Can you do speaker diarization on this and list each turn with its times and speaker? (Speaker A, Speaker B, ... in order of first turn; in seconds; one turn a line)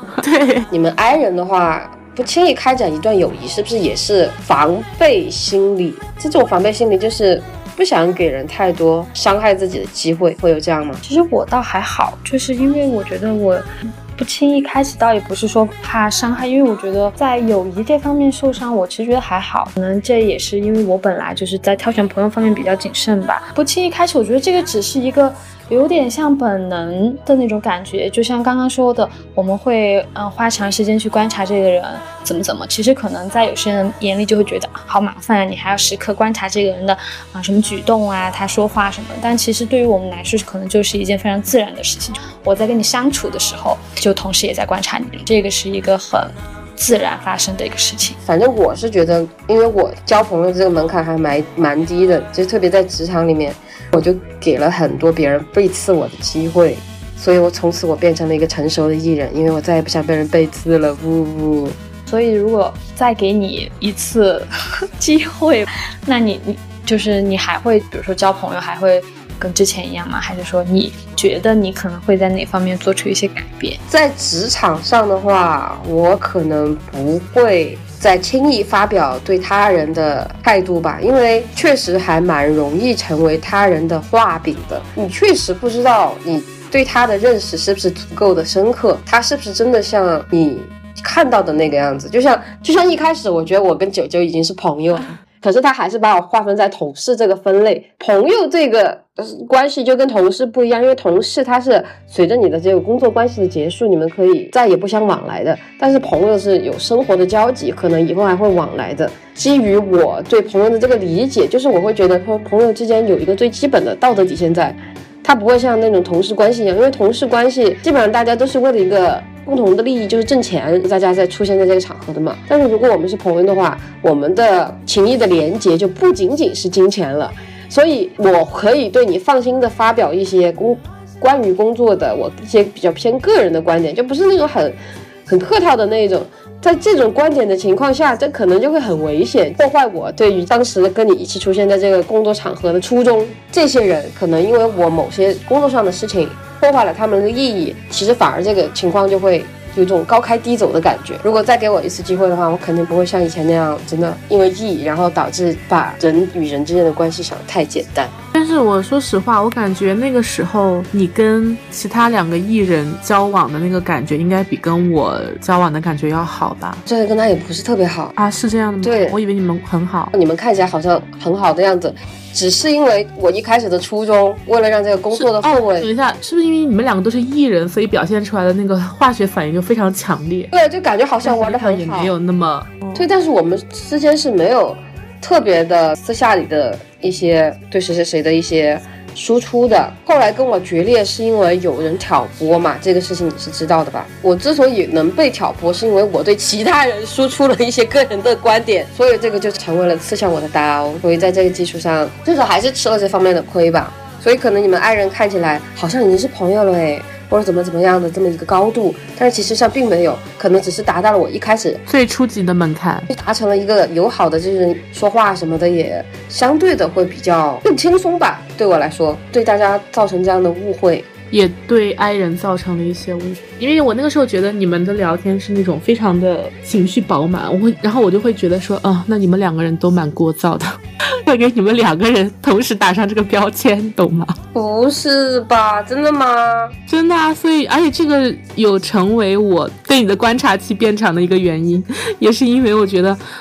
Speaker A: 0.2-0.7
Speaker B: 0.7-11.0
Speaker C: 11.0-48.2
Speaker B: 48.2-61.8
Speaker C: 62.1-73.8
Speaker B: 73.9-158.1
Speaker A: 158.3-166.8
Speaker B: 166.8-168.2
Speaker A: 168.2-170.1
Speaker B: 168.8-169.2
Speaker B: 170.1-175.9
Speaker A: 175.1-180.5
Speaker B: 180.5-182.1
Speaker A: 181.2-183.0
Speaker B: 182.9-211.8
Speaker A: 211.9-213.1
Speaker B: 213.1-221.1
Speaker A: 221.3-234.3
Speaker B: 234.5-236.8
Speaker A: 236.9-243.2